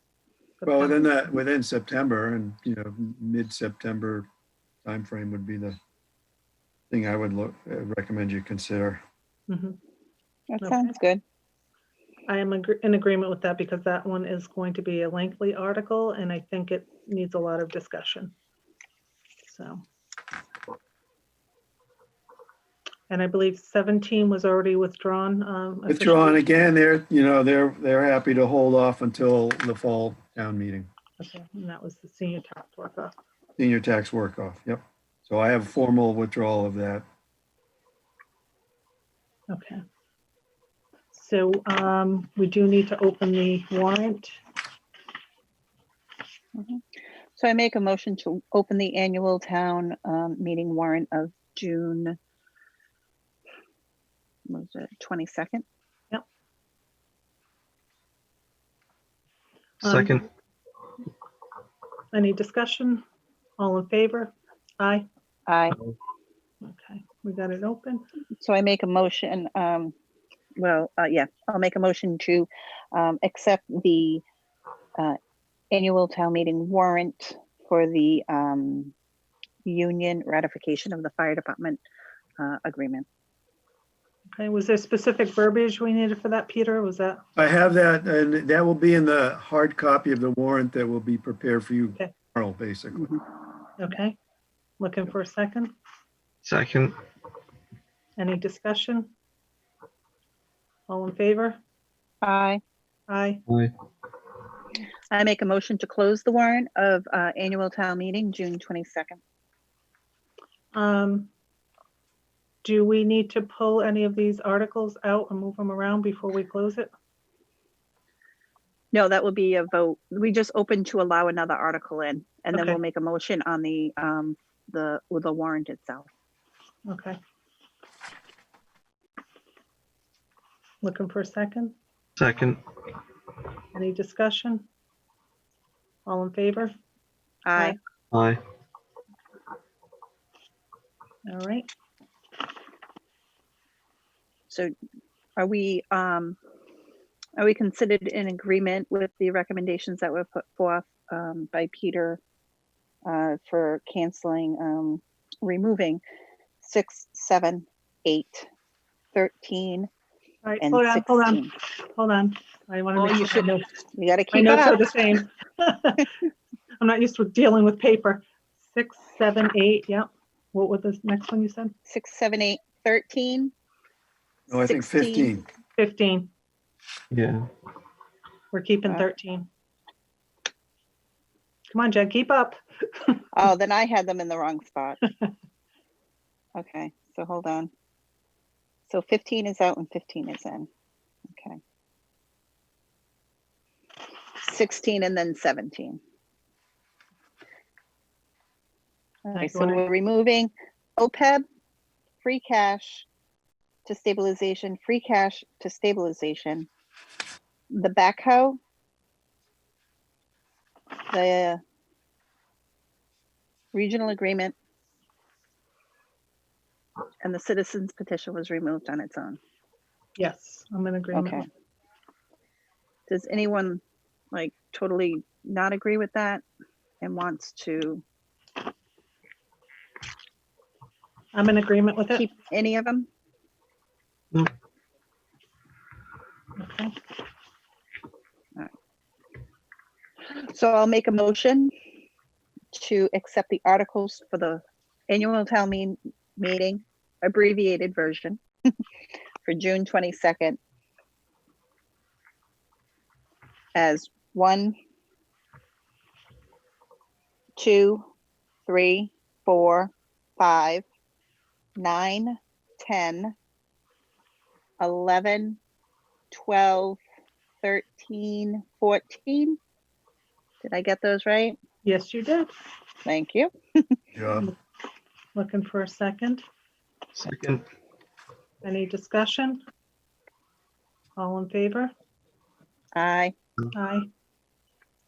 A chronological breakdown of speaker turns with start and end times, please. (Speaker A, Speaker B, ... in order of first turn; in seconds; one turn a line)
Speaker A: 0.6-1.2
Speaker B: 0.7-4.3
Speaker B: 4.8-5.8
Speaker B: 6.9-9.0
Speaker A: 9.5-9.8
Speaker C: 10.5-11.2
Speaker A: 10.6-10.9
Speaker A: 12.3-18.3
Speaker A: 19.4-19.8
Speaker A: 23.1-26.4
Speaker B: 25.9-30.9
Speaker A: 31.2-33.1
Speaker B: 33.6-37.0
Speaker A: 39.5-39.8
Speaker A: 41.1-44.4
Speaker C: 46.5-46.8
Speaker C: 47.4-52.2
Speaker C: 54.5-55.6
Speaker A: 59.8-60.2
Speaker D: 59.8-60.2
Speaker A: 62.1-63.0
Speaker A: 63.6-65.1
Speaker C: 65.5-65.8
Speaker A: 66.6-68.0
Speaker C: 68.4-69.9
Speaker C: 70.6-74.2
Speaker C: 75.7-78.9
Speaker C: 79.7-81.8
Speaker C: 82.4-83.1
Speaker A: 84.3-87.2
Speaker B: 87.4-93.1
Speaker A: 93.8-94.2
Speaker A: 94.8-95.7
Speaker D: 96.5-96.9
Speaker A: 98.2-99.1
Speaker A: 100.9-101.6
Speaker C: 102.2-102.6
Speaker A: 103.1-103.4
Speaker C: 105.1-109.2
Speaker A: 110.7-111.3
Speaker A: 112.6-116.9
Speaker C: 118.9-126.1
Speaker A: 122.5-122.8
Speaker A: 126.9-127.2
Speaker A: 130.8-131.8
Speaker D: 132.2-132.6
Speaker A: 133.7-134.7
Speaker A: 136.1-136.7
Speaker C: 137.4-137.8
Speaker A: 141.3-141.7
Speaker C: 145.4-146.4
Speaker C: 147.4-152.2
Speaker C: 153.1-156.0
Speaker C: 156.6-158.5
Speaker C: 159.2-159.9
Speaker A: 160.4-163.7
Speaker C: 160.6-161.5
Speaker C: 163.0-164.9
Speaker A: 164.3-166.1
Speaker A: 166.8-171.7
Speaker C: 171.9-173.5
Speaker B: 174.5-175.5
Speaker C: 174.5-175.3
Speaker A: 175.8-176.3
Speaker D: 177.1-177.5
Speaker A: 178.5-179.5
Speaker A: 181.7-183.2
Speaker C: 183.3-185.0
Speaker C: 186.6-187.7
Speaker C: 188.9-190.7
Speaker C: 191.3-191.6
Speaker C: 194.4-196.0
Speaker C: 199.3-201.4
Speaker A: 199.3-199.8
Speaker C: 202.2-203.1
Speaker C: 203.9-206.7
Speaker C: 207.7-208.6
Speaker C: 211.1-211.6
Speaker C: 213.7-214.6
Speaker C: 217.2-219.4
Speaker A: 220.2-221.4
Speaker C: 221.1-221.4
Speaker C: 223.1-226.4
Speaker C: 227.0-228.0
Speaker A: 231.3-232.3
Speaker C: 232.1-233.1
Speaker A: 236.6-236.9
Speaker C: 240.3-241.7
Speaker C: 242.7-248.4
Speaker C: 249.4-250.6
Speaker C: 253.8-254.8
Speaker C: 257.6-258.1
Speaker C: 258.7-260.9
Speaker C: 261.8-263.4
Speaker C: 264.8-265.6
Speaker C: 266.3-267.0
Speaker C: 267.6-269.6
Speaker C: 270.6-271.6
Speaker A: 271.8-272.5
Speaker C: 273.1-274.0
Speaker B: 274.1-274.5
Speaker A: 275.4-276.4
Speaker D: 277.2-277.6
Speaker A: 278.6-279.6
Speaker A: 281.2-281.9
Speaker C: 282.9-283.4
Speaker A: 283.7-284.1